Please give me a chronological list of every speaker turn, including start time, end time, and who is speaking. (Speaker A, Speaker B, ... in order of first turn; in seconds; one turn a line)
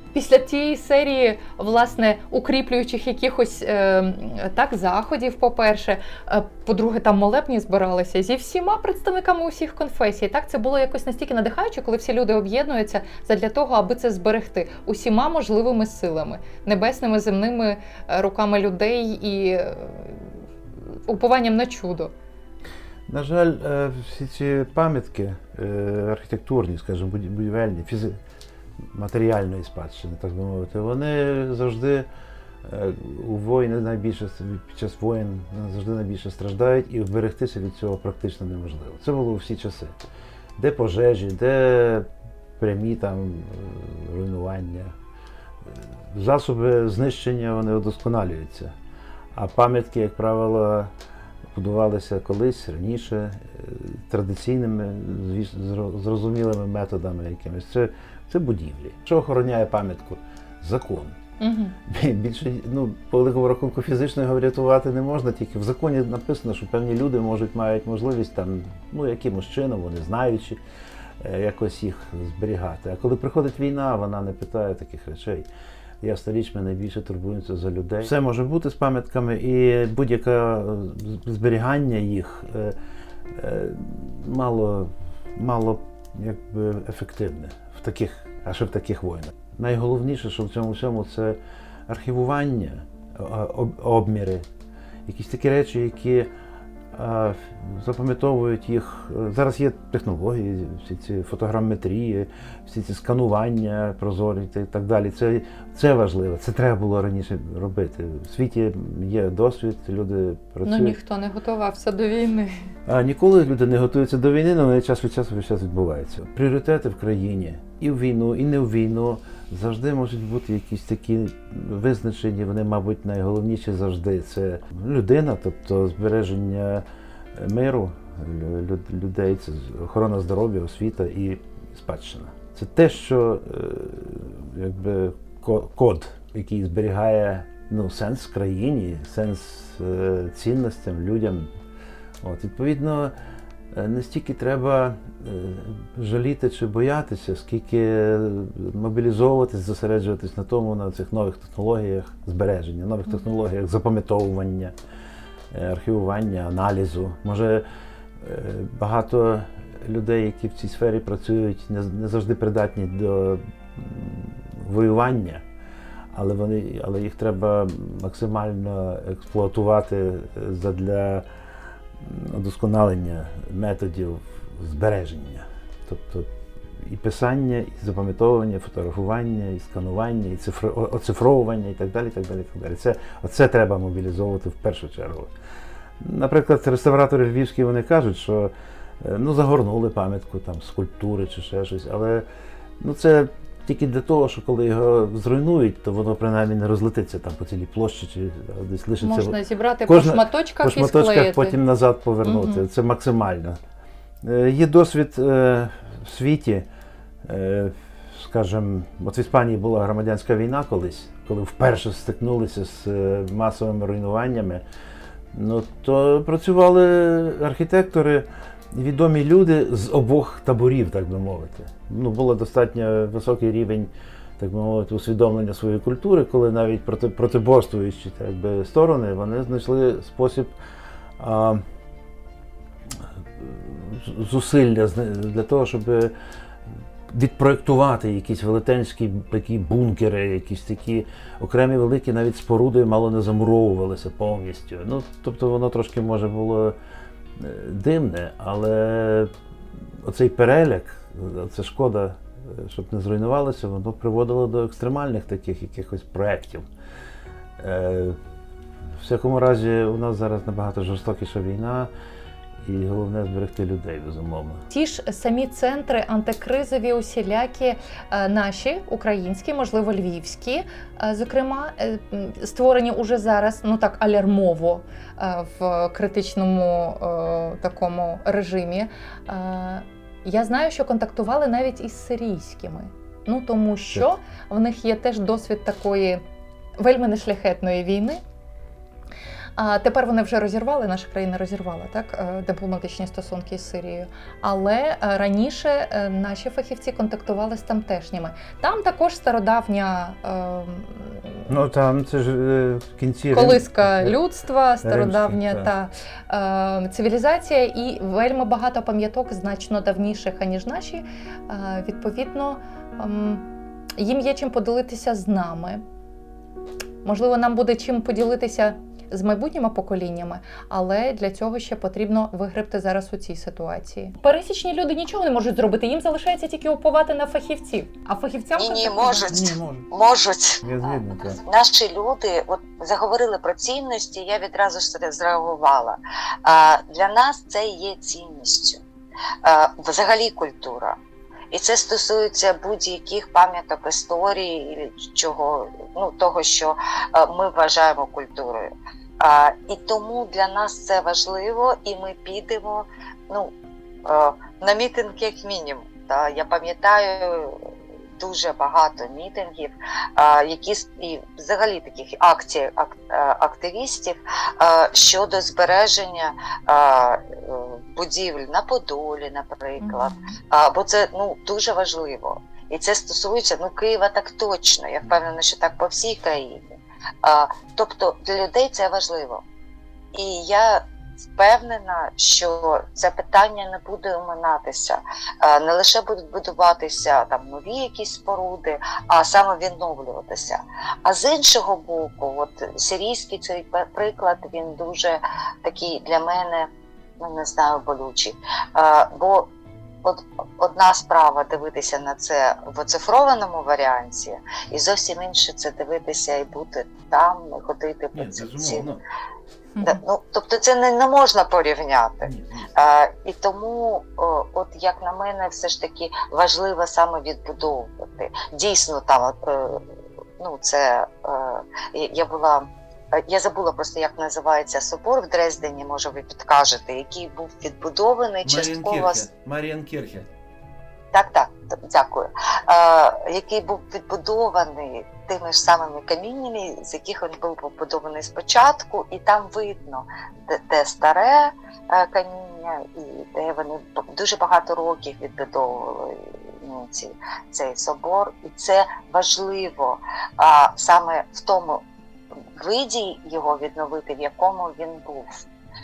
Speaker A: 0.1-20.3
Speaker A: 20.9-22.1
Speaker B: 23.1-28.2
Speaker B: 28.9-32.1
Speaker B: 32.6-40.0
Speaker B: 40.6-42.1
Speaker B: 42.6-44.9
Speaker B: 45.7-48.7
Speaker B: 49.3-50.9
Speaker B: 51.5-61.2
Speaker A: 61.4-61.8
Speaker B: 61.9-70.6
Speaker B: 71.2-75.5
Speaker B: 76.0-82.8
Speaker B: 83.3-94.4
Speaker B: 95.1-96.3
Speaker B: 96.9-111.0
Speaker A: 110.7-112.5
Speaker B: 112.9-126.8
Speaker B: 127.4-141.5
Speaker B: 142.2-143.1
Speaker B: 143.7-154.7
Speaker B: 155.5-157.6
Speaker B: 158.2-165.4
Speaker B: 166.1-171.3
Speaker B: 172.0-185.3
Speaker B: 186.0-192.3
Speaker B: 192.8-203.6
Speaker A: 199.0-201.6
Speaker A: 202.2-202.7
Speaker B: 204.2-206.7
Speaker B: 207.2-214.6
Speaker B: 215.3-230.5
Speaker B: 231.2-231.6
Speaker B: 233.4-236.1
Speaker B: 237.1-246.8
Speaker B: 247.4-249.3
Speaker B: 250.0-256.7
Speaker B: 257.6-258.2
Speaker B: 259.0-261.9
Speaker B: 262.6-264.6
Speaker A: 264.7-286.2
Speaker A: 286.8-288.2
Speaker A: 289.6-301.4
Speaker B: 301.5-304.2
Speaker A: 303.3-315.8
Speaker B: 304.8-305.7
Speaker A: 317.0-329.3
Speaker C: 328.6-338.8
Speaker B: 329.3-329.9
Speaker B: 330.6-331.4
Speaker C: 339.4-341.0
Speaker C: 341.5-353.5
Speaker C: 354.1-357.6
Speaker C: 358.2-376.6
Speaker A: 369.8-370.1
Speaker C: 377.2-379.4
Speaker C: 380.1-396.7
Speaker C: 397.2-399.5
Speaker C: 400.0-408.9
Speaker B: 408.1-409.0
Speaker A: 409.8-410.0
Speaker C: 409.8-419.8
Speaker B: 412.2-412.8
Speaker C: 420.4-429.3
Speaker B: 428.4-430.3
Speaker C: 431.1-451.8
Speaker C: 452.6-455.3